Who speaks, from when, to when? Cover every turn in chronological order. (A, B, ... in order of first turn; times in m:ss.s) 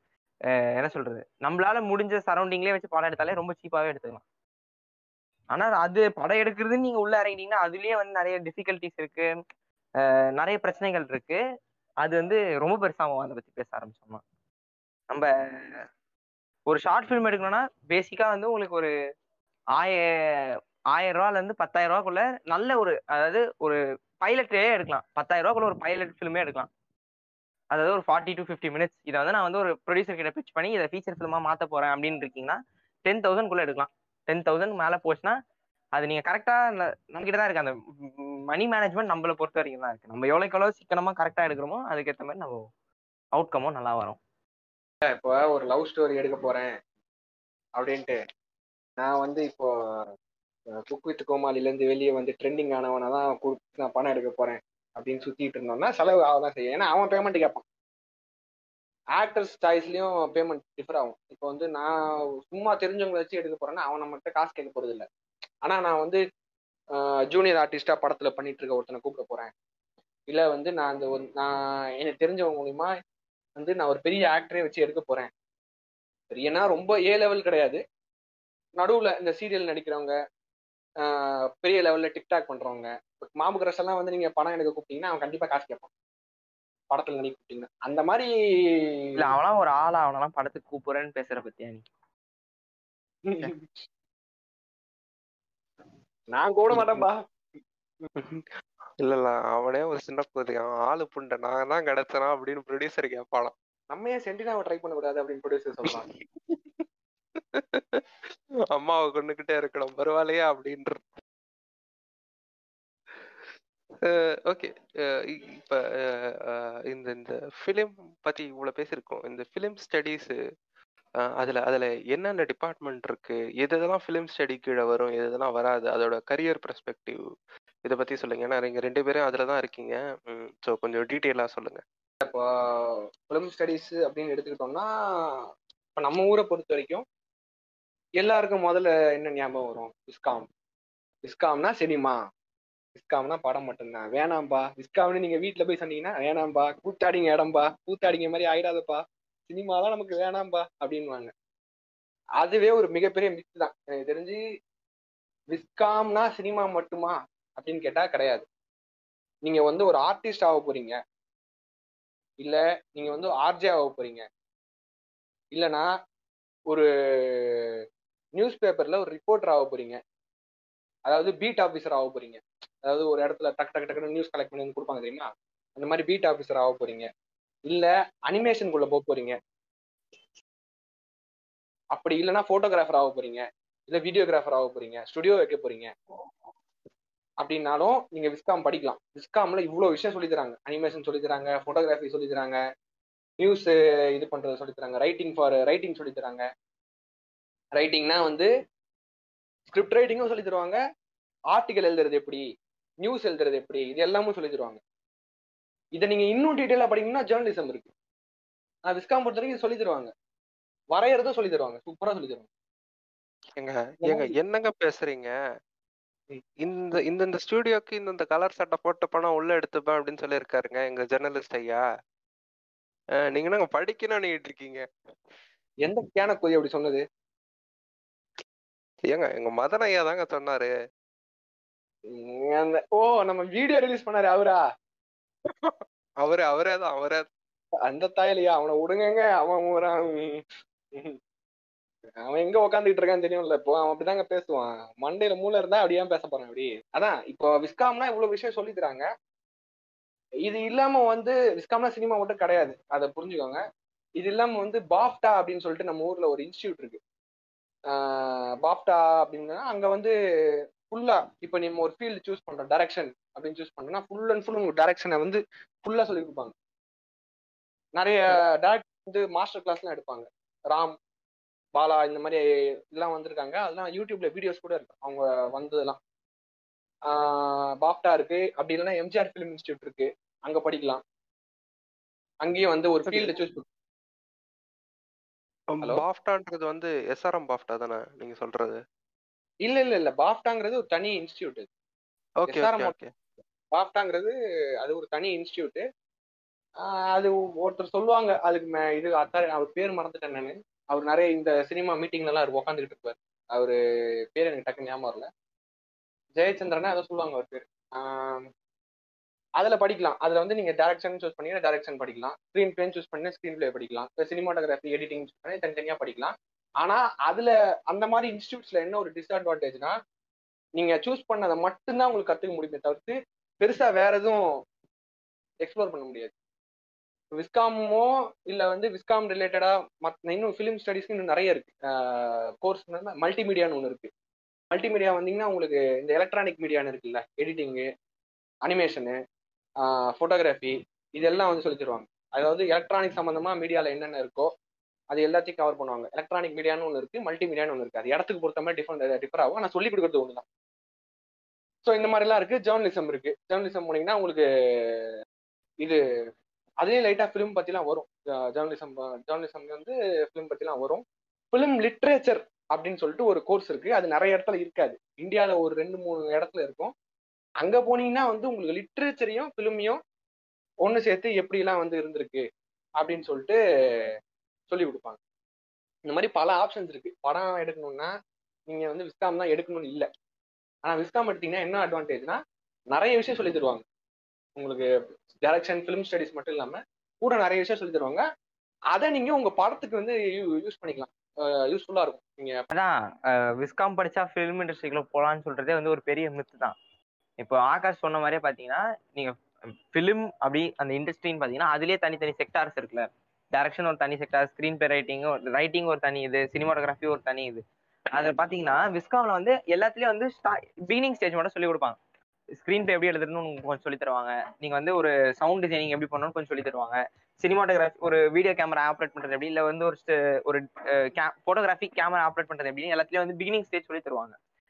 0:00.8-0:04.2 A
0:05.5-0:09.3 A
0:10.0-0:11.4 A
0:12.0-0:14.2 A
0:15.1-0:15.8 A
0:16.7-0:18.9 A
0:19.8-0:26.7 A
0:27.7-0:35.4 A
0:36.0-0:42.6 A
0:43.4-0:44.2 A
0:45.0-0:46.7 B
0:47.8-0:48.2 B
0:49.0-0:50.1 B
0:50.8-0:57.6 B
0:59.2-1:05.1 B
1:05.6-1:06.2 B
1:07.0-1:09.5 B
1:10.3-1:12.9 B
1:13.6-1:15.3 B
1:16.3-1:17.8 B
1:18.8-1:20.1 B
1:21.0-1:25.9 B
1:26.9-1:28.3 B
1:29.2-1:31.9 A
1:33.2-1:33.8 B
1:36.3-1:37.2 B
1:36.7-1:37.1 C
1:38.2-1:38.5 C
1:39.0-1:43.5 C
1:43.9-1:46.1 B
1:45.9-1:46.8 C
1:47.4-1:51.0 C
1:54.0-2:00.4 C
2:01.4-2:07.2 C
2:07.9-2:11.8 C
2:12.2-2:15.4 B
2:16.0-2:17.0 B
2:18.2-2:20.5 B
2:21.2-2:22.2 B
2:23.0-2:31.3 B
2:32.4-2:34.4 B
2:35.5-2:38.4 B
2:39.4-2:41.0 B
2:42.4-2:44.2 B
2:45.5-2:45.9 B
2:46.7-2:47.8 B
2:48.4-2:50.0 B
2:51.1-2:57.1 B
2:57.7-2:59.4 B
3:01.9-3:05.9 B
3:07.4-3:12.6 B
3:13.4-3:16.4 B
3:17.8-3:18.5 B
3:19.7-3:20.8 B
3:21.5-3:22.4 B
3:23.0-3:24.8 B
3:26.0-3:27.9 B
3:28.9-3:30.1 B
3:30.9-3:32.5 B
3:33.6-3:35.3 C
3:34.0-3:34.3 B
3:36.6-3:41.8 C
3:43.3-3:44.8 C
3:45.8-3:47.0 B
3:49.1-3:50.7 C
3:52.1-3:54.6 B
3:55.4-3:57.3 C
3:57.9-4:01.2 B
4:02.2-4:09.1 B
4:10.4-4:13.6 B
4:14.2-4:17.0 B
4:17.9-4:20.1 B
4:20.9-4:26.5 B
4:28.0-4:31.0 B
4:31.8-4:36.0 B
4:37.1-4:41.0 B
4:42.4-4:43.6 B
4:43.1-4:43.3 C
4:45.7-4:48.8 C
4:49.6-4:51.7 B
4:52.4-4:53.1 C
4:52.5-4:52.9 B
4:53.7-4:55.8 B
4:56.8-5:03.8 B
5:04.3-5:05.3 B
5:06.4-5:08.5 B
5:09.6-5:20.0 B
5:20.8-5:24.4 B
5:25.6-5:26.3 B
5:27.4-5:34.1 B
5:34.7-5:37.9 B
5:38.7-5:39.2 B
5:39.8-5:44.5 B
5:45.1-5:50.4 B
5:51.8-5:55.1 B
5:56.8-6:06.9 B
6:07.6-6:10.0 B
6:10.8-6:12.4 B
6:13.0-6:13.6 B
6:14.7-6:15.2 B
6:16.1-6:18.1 B
6:18.7-6:20.1 B
6:20.8-6:22.4 B
6:22.9-6:23.8 B
6:24.6-6:24.9 B
6:25.4-6:28.2 B
6:28.9-6:32.6 B
6:32.7-6:36.8 A
6:37.4-6:39.4 A
6:39.9-6:52.0 A
6:52.6-7:04.4 A